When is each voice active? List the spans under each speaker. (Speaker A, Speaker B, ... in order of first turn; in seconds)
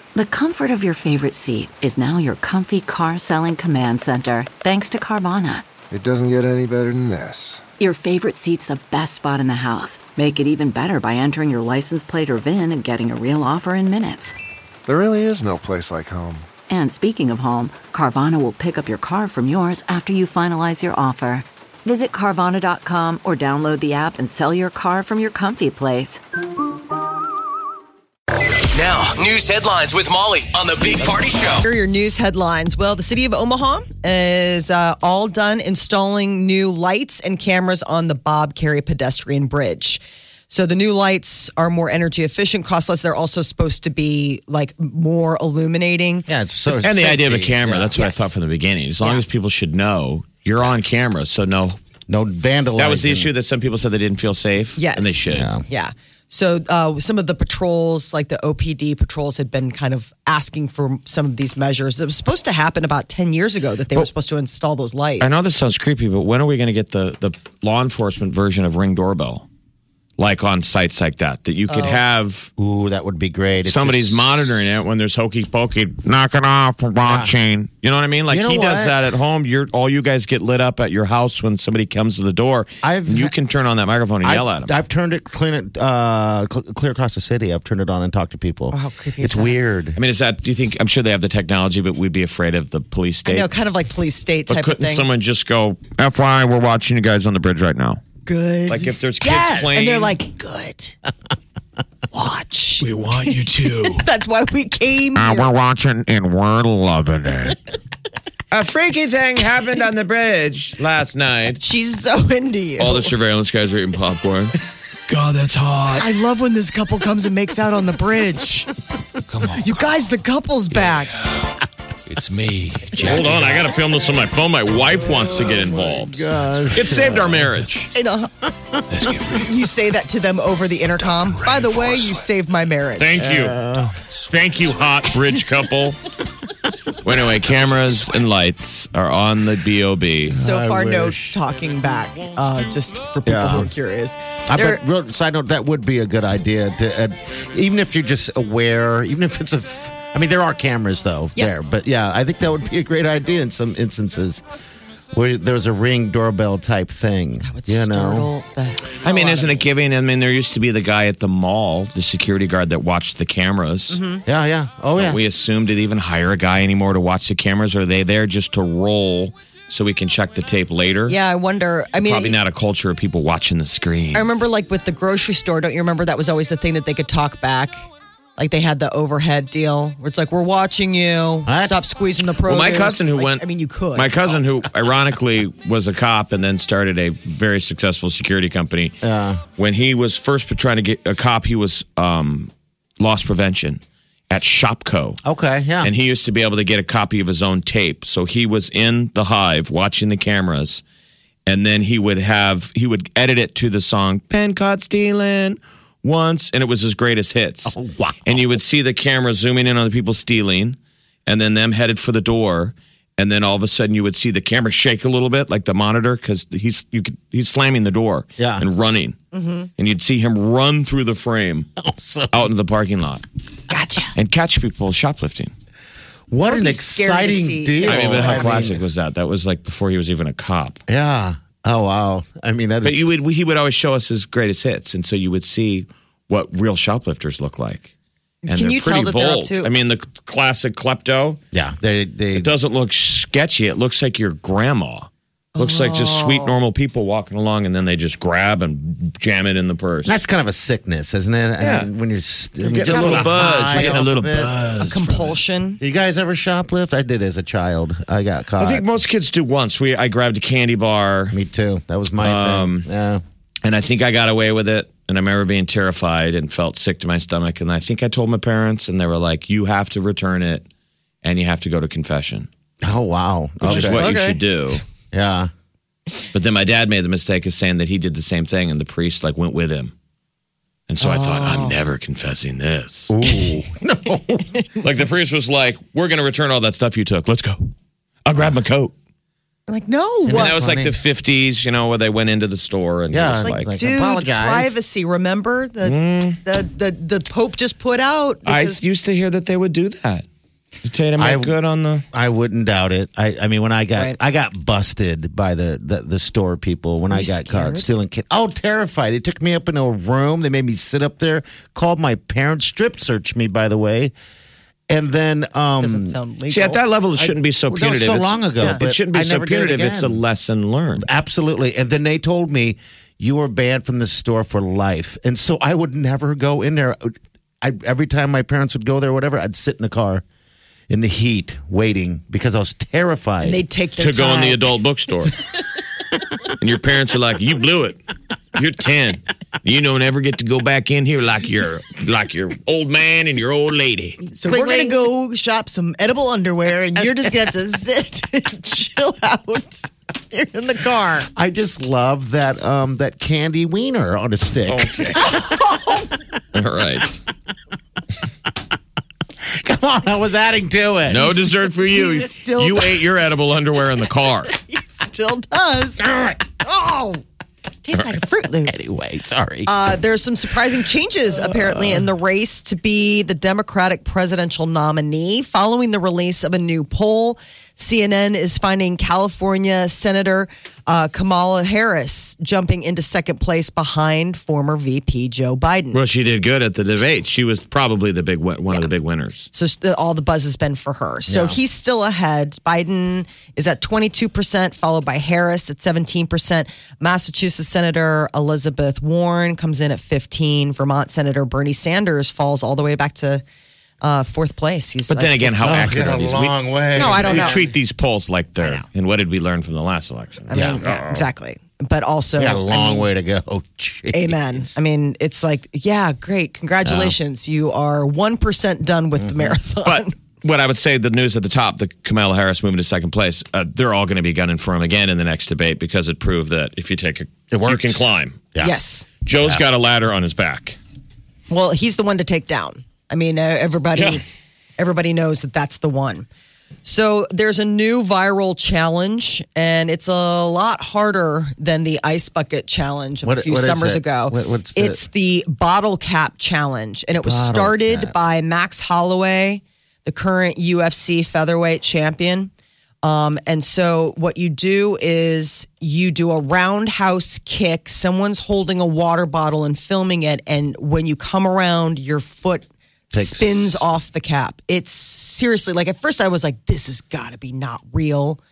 Speaker A: 0.1-5.7, 7.8-14.3, 16.7-26.2
Speaker B: 5.9-7.6, 14.8-16.5
Speaker C: 28.7-31.6
Speaker D: 31.6-46.3, 48.0-48.3, 54.8-65.3, 71.7-72.0, 88.7-89.6, 93.2-95.0, 98.2-101.0, 102.1-105.5, 111.5-113.1, 116.0-118.7, 119.5-121.1, 127.9-128.3, 129.3-133.2, 140.3-144.8, 157.4-159.6, 163.9-164.2, 171.1-172.4, 174.1-184.1, 219.3-219.7, 223.7-224.1, 226.5-228.4, 238.4-239.7, 245.6-246.5, 252.8-254.0, 254.8-255.8, 273.7-274.4, 281.0-281.8, 289.7-290.6, 293.4-298.8, 307.1-307.9, 315.8-316.8, 333.4-334.6, 344.3-351.3, 355.2-356.1, 361.2-363.4, 364.5-366.1, 366.6-367.2, 367.8-368.9, 369.6-386.0, 389.5-403.4, 404.0-405.8, 406.9-407.7, 408.6-408.9, 410.5-413.1, 414.1-420.1, 428.6-429.1, 431.5-434.2, 434.8-436.3, 436.9-452.5, 453.0-468.4
Speaker E: 46.3-48.0, 52.1-53.3, 55.2-55.6, 72.6-74.5, 77.0-77.3, 78.3-78.9, 82.8-83.3, 84.2-90.0, 122.1-123.7, 124.8-127.7, 128.8-129.2, 133.2-134.2, 140.2-141.4, 143.2-143.7, 144.5-154.4, 155.1-158.3, 164.2-165.2, 181.5-181.8, 189.0-189.4, 195.2-195.9, 207.7-208.6, 218.4-218.7, 221.8-222.5, 226.3-228.8, 230.9-233.1, 241.5-242.5, 250.1-254.5, 255.8-258.9, 261.3-263.2, 272.8-274.1, 275.1-275.5, 283.1-284.6, 290.3-290.9, 293.1-294.7, 301.2-301.5, 302.1-314.1, 314.9-316.2, 317.2-320.2, 321.0-330.2, 330.9-333.6, 344.4-345.1, 351.4-355.2, 359.4-361.5, 366.0-366.6, 368.7-369.7, 371.4-372.1, 391.3-391.6, 405.6-407.6, 410.5-411.2, 412.4-414.7, 419.2-419.5, 427.5-428.7, 443.2-445.0, 447.1-448.1, 463.1-463.9
Speaker F: 46.8-51.8, 52.8-55.5, 65.2-69.5, 70.2-72.5, 73.6-84.7, 89.9-93.5, 94.5-98.0, 98.7-100.2, 102.8-104.0, 105.2-107.6, 108.5-111.6, 112.8-114.5, 115.1-116.1, 122.9-127.9, 128.9-129.5, 133.0-133.6, 134.3-136.0, 137.0-140.4, 159.0-164.0, 165.0-171.2, 172.0-174.5, 182.5-189.0, 189.6-195.2, 195.8-200.8, 201.5-219.2, 219.8-221.7, 222.3-223.2, 224.2-225.5, 227.8-230.8, 232.8-237.9, 238.5-241.4, 242.3-250.2, 251.6-251.9, 252.6-255.4, 258.6-261.4, 262.2-262.9, 263.6-270.7, 271.2-272.5, 273.6-274.8, 276.3-279.9, 280.9-283.1, 284.8-287.7, 288.2-288.9, 290.3-293.7, 295.8-296.4, 298.4-300.2, 300.8-302.1, 316.5-321.1, 334.0-335.4, 336.6-338.0, 338.6-344.2, 354.7-355.3, 356.5-357.2, 361.1-364.5, 385.9-389.5, 405.1-410.5, 416.9-417.1, 419.8-428.4, 429.2-430.8, 433.9-434.2